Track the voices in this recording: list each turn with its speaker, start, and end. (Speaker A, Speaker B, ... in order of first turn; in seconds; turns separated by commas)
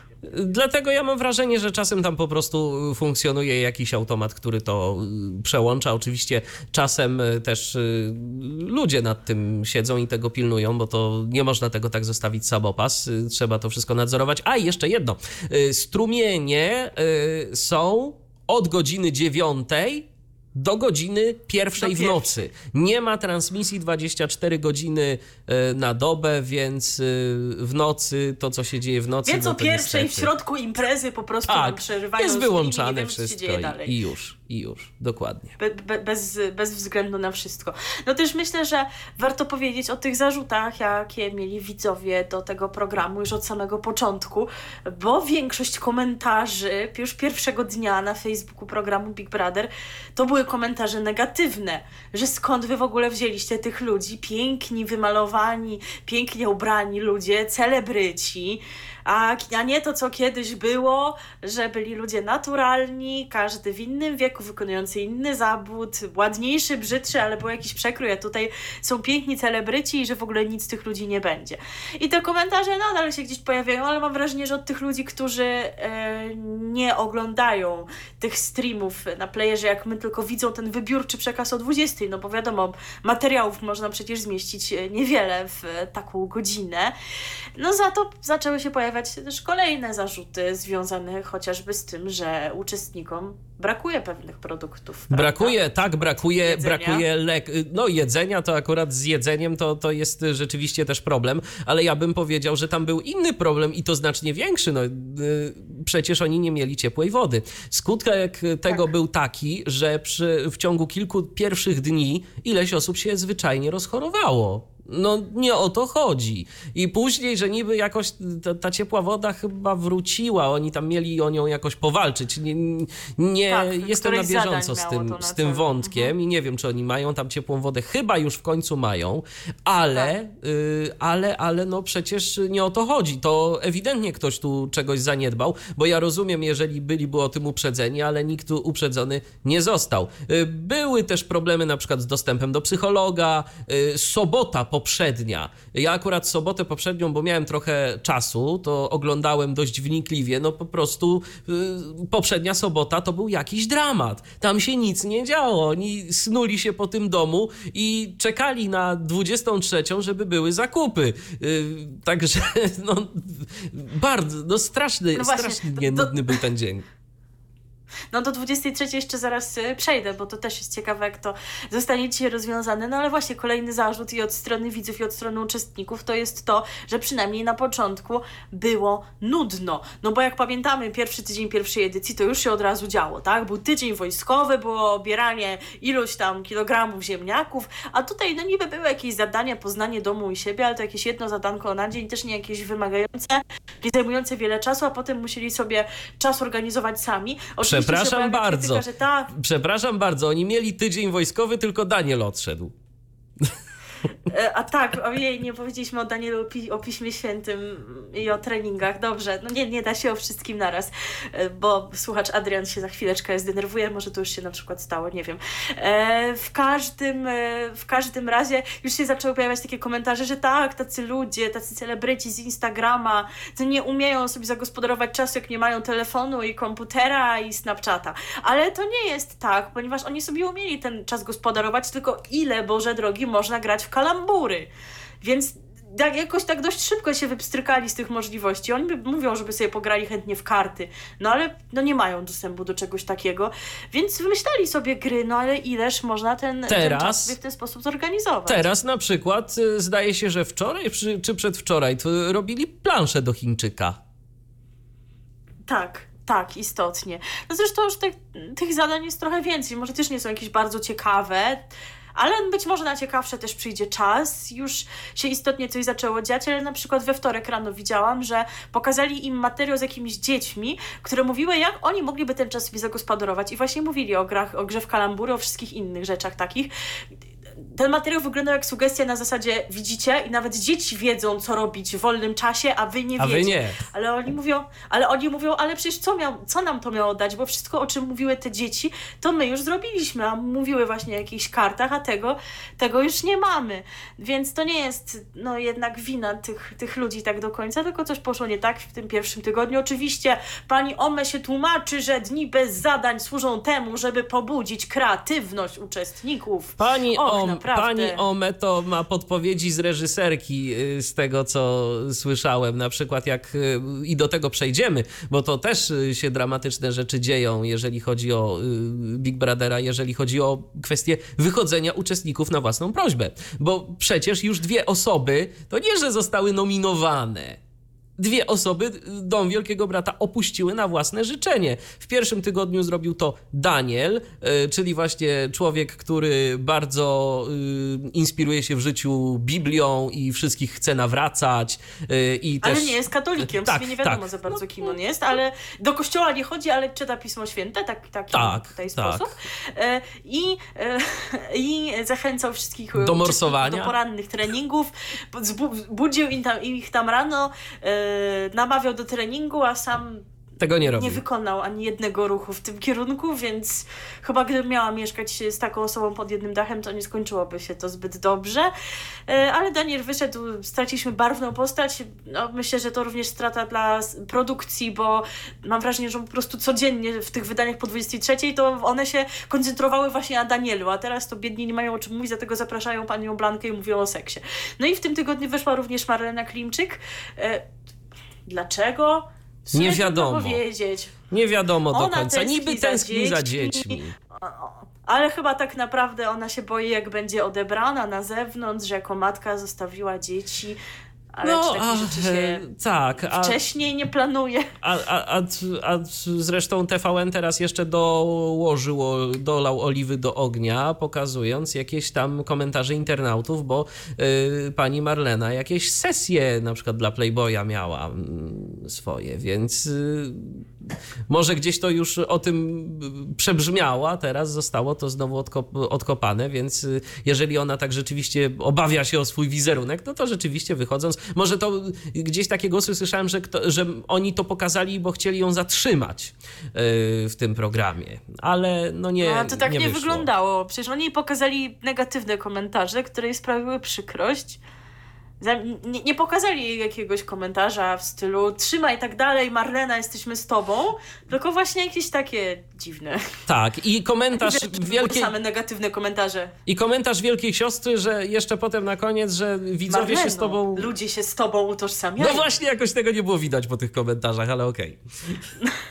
Speaker A: 0.2-30.3, Speaker B: 21.8-22.3, Speaker B: 29.2-33.9, Speaker A: 31.5-35.5, Speaker B: 35.6-86.9, Speaker B: 87.6-97.0, Speaker A: 95.1-166.8, Speaker B: 123.5-126.1, Speaker B: 165.1-166.4, Speaker B: 168.1-199.3, Speaker A: 197.6-202.7, Speaker B: 204.3-234.7, Speaker B: 235.2-248.7, Speaker A: 246.7-247.3, Speaker A: 248.5-254.0, Speaker B: 255.7-261.6, Speaker B: 262.1-276.7, Speaker B: 277.7-308.2, Speaker A: 283.2-283.8, Speaker A: 306.8-327.6, Speaker A: 328.2-343.0, Speaker B: 342.6-360.2, Speaker A: 343.6-344.9, Speaker A: 348.3-349.3, Speaker A: 353.0-353.9, Speaker A: 360.6-361.2, Speaker B: 360.9-368.7, Speaker B: 369.3-387.6, Speaker B: 388.4-391.1, Speaker A: 389.7-390.6, Speaker A: 391.3-394.1, Speaker B: 391.9-400.8, Speaker B: 401.3-402.6, Speaker A: 401.4-403.6, Speaker B: 403.2-404.7, Speaker A: 404.8-420.6, Speaker A: 421.3-440.3, Speaker B: 439.2-444.6, Speaker B: 445.4-453.3, Speaker A: 453.5-455.3, Speaker B: 454.4-456.5, Speaker A: 456.7-460.9, Speaker B: 459.9-462.5, Speaker A: 462.2-465.0